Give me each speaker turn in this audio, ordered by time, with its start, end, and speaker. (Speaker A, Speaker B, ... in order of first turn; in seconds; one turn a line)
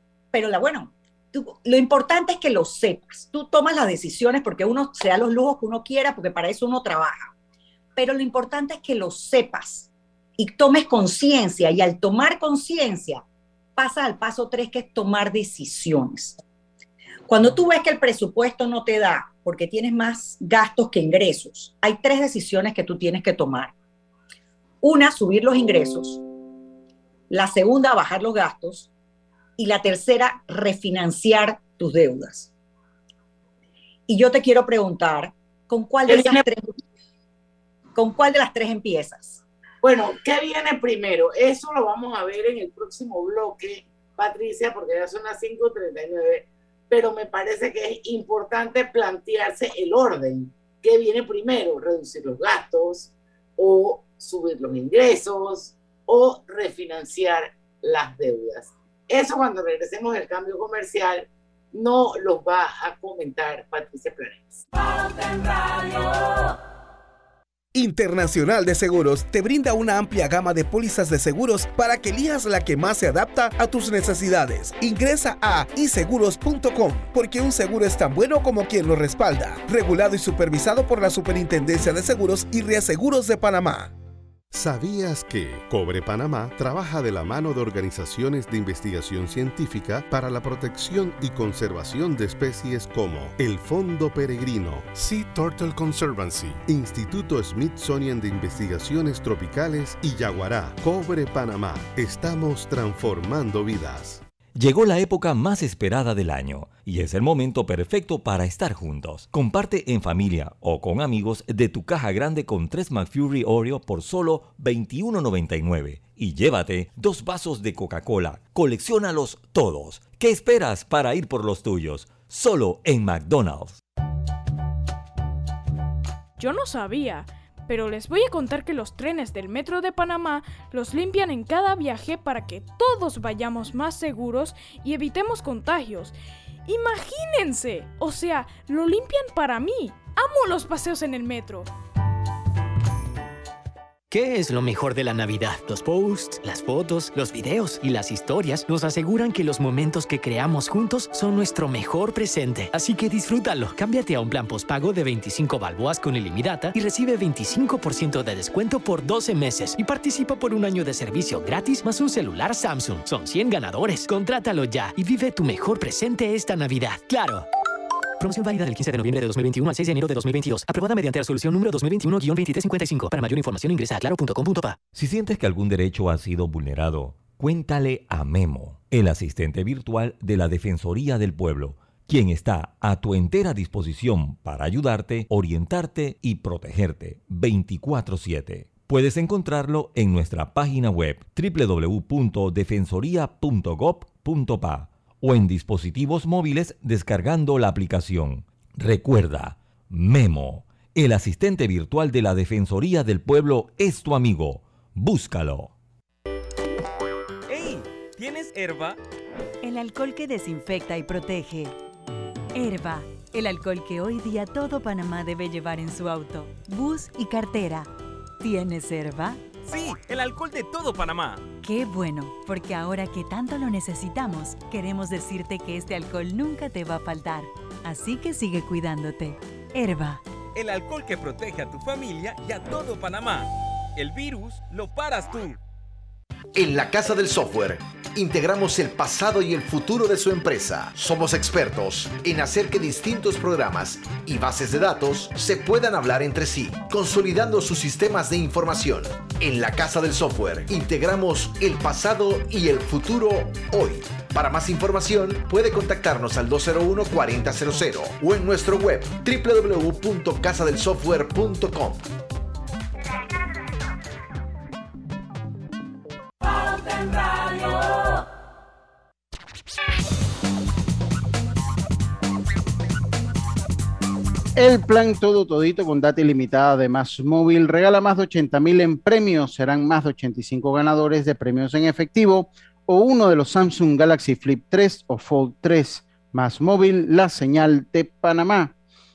Speaker A: 0.3-7.3
Speaker A: 8.0-13.2
Speaker A: 13.8-16.4
Speaker A: 17.3-23.7
Speaker A: 24.8-26.2
Speaker A: 27.3-28.9
Speaker A: 29.6-32.5
Speaker A: 34.1-36.8
Speaker B: 36.1-36.4
Speaker A: 37.9-39.4
Speaker B: 39.8-64.6
Speaker C: 67.7-83.9
Speaker D: 84.5-104.2
Speaker E: 104.5-123.8
Speaker F: 126.4-141.7
Speaker G: 144.1-167.5
Speaker G: 168.2-174.8
Speaker E: 174.9-205.7
Speaker H: 207.5-209.0
Speaker I: 209.6-211.8
Speaker I: 212.5-219.4
Speaker H: 219.6-221.4
Speaker I: 221.6-230.2
Speaker H: 230.5-235.6
Speaker J: 236.5-262.0
Speaker K: 274.5-288.7